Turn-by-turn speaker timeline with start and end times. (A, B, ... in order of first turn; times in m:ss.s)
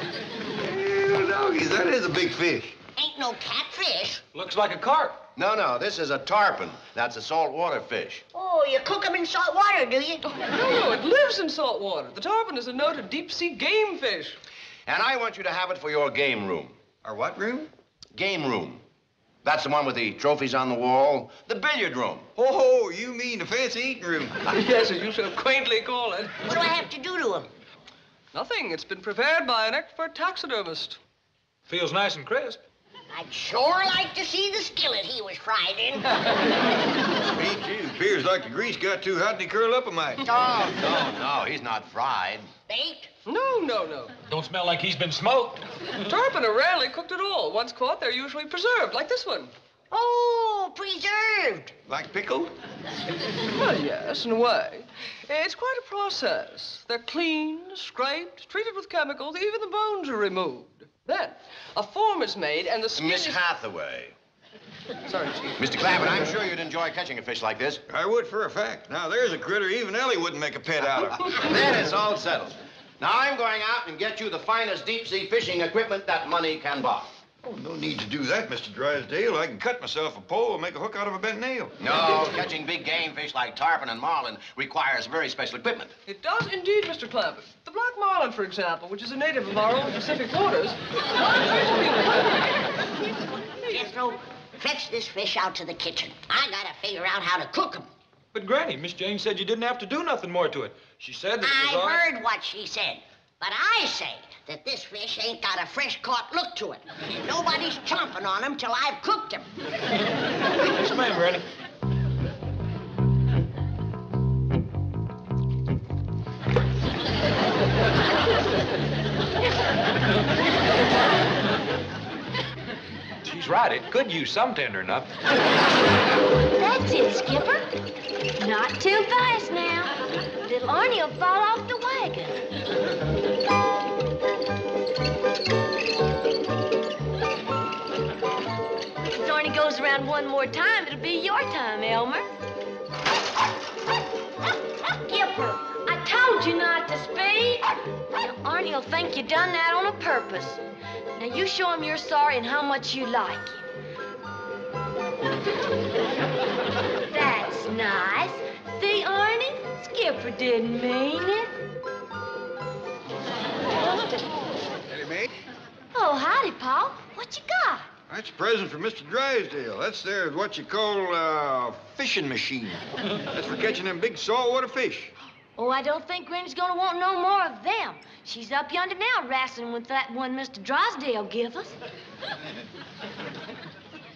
0:00.6-0:02.8 A
0:03.0-0:04.2 B
0:04.3-0:05.2 C
0:05.4-0:08.2 D
0:08.3-0:10.2 B
0:10.2-0:14.4 E
0:14.8-0:16.8 D
0:17.0-0:17.7 A
0:18.1-0:18.8 D
0:19.4-0:22.2 D
0:22.4-0:24.4 A
0:24.4-0:26.3 E
0:26.4-0:27.5 B
0:28.3-0:31.0 E
0:31.7-0:32.6 C
0:33.1-0:36.0 B
0:37.3-0:40.2 A
0:40.2-0:42.5 D
0:42.7-0:43.1 B
0:43.2-0:44.1 E
0:44.3-0:45.6 C
0:46.0-0:49.5 E
0:49.9-0:51.7 B
0:51.9-0:52.6 A
0:53.5-1:03.4 E
1:02.9-1:04.1 D
1:05.1-1:05.6 E
1:05.6-1:07.8 D
1:07.9-1:11.4 A
1:11.4-1:17.1 D
1:17.4-1:21.8 A
1:21.8-1:25.9 D
1:26.0-1:32.6 E
1:33.7-1:37.9 B
1:38.3-1:42.0 C
1:41.4-1:49.5 B
1:50.6-1:51.4 C
2:03.2-2:05.1 C
2:06.6-2:07.7 F
2:08.4-2:09.9 F
2:10.4-2:12.4 F
2:19.1-2:22.2 F
2:24.9-2:30.6 F
2:25.1-2:25.5 B
2:31.2-2:33.6 F
2:37.1-2:41.5 F
2:44.9-2:45.3 A
2:45.9-2:47.9 F
2:48.1-2:55.1 A
2:55.6-3:01.8 F